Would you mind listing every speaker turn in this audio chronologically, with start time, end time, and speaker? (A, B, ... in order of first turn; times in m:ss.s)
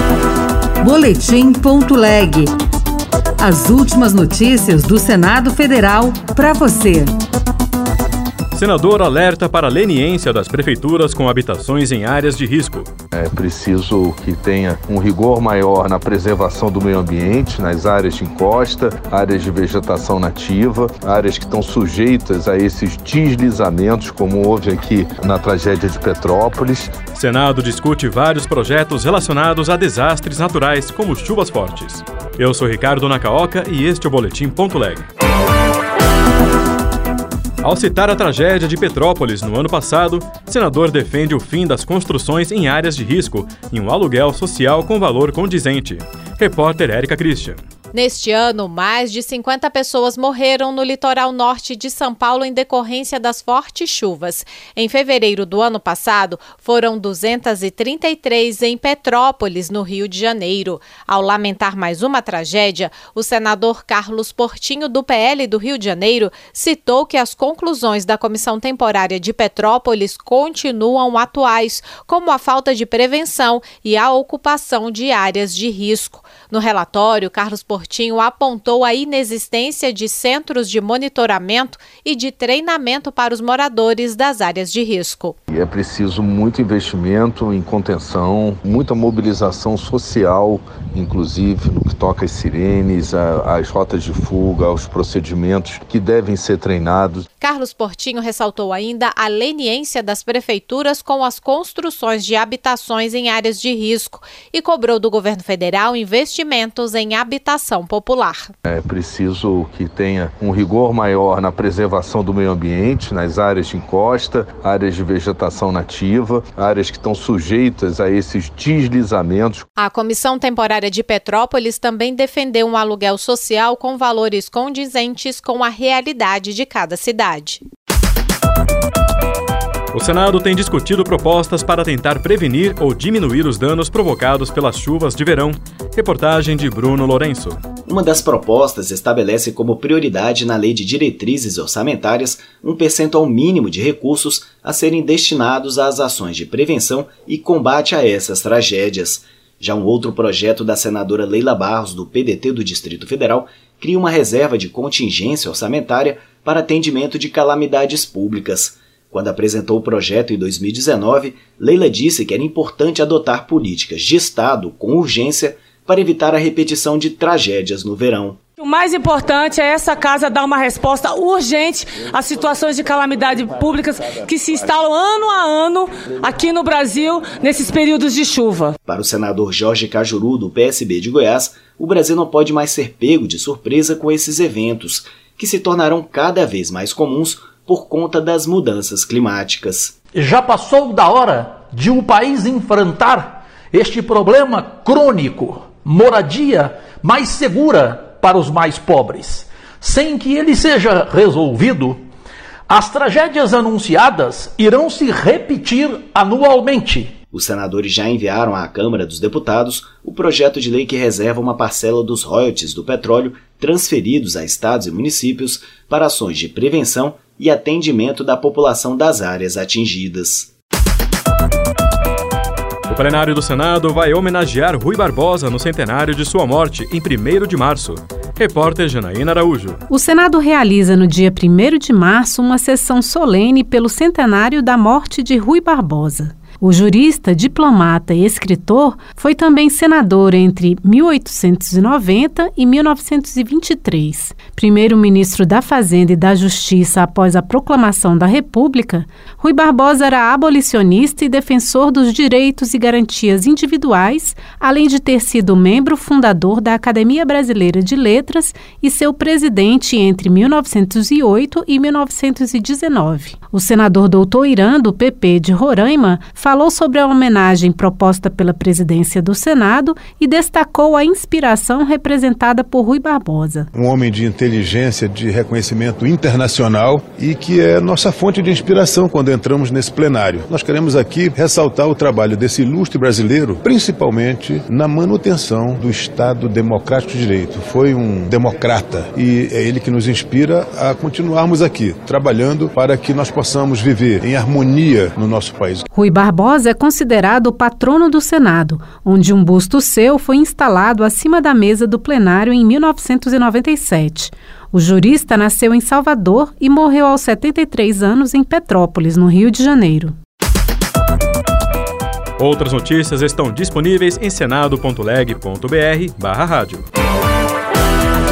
0:00.8-0:02.5 A
0:03.4-0:07.1 A
0:08.5-0:12.9 B
0:13.1-0:26.9 C
0:27.1-0:35.0 B
0:37.6-0:47.6 B
0:47.9-1:25.4 D
1:25.5-1:37.3 C
1:37.4-1:48.5 D
1:48.6-1:59.7 C
1:59.8-2:07.6 D
2:09.9-2:17.6 B
2:17.9-2:48.4 E
2:48.6-2:58.8 F
2:58.8-3:09.9 E
3:10.2-3:22.0 G
3:22.7-3:27.1 G
3:27.3-3:40.5 E
3:42.9-3:49.8 B
3:49.9-4:33.7 H
4:33.8-4:55.8 I
4:55.9-5:10.2 H
5:12.4-5:16.9 B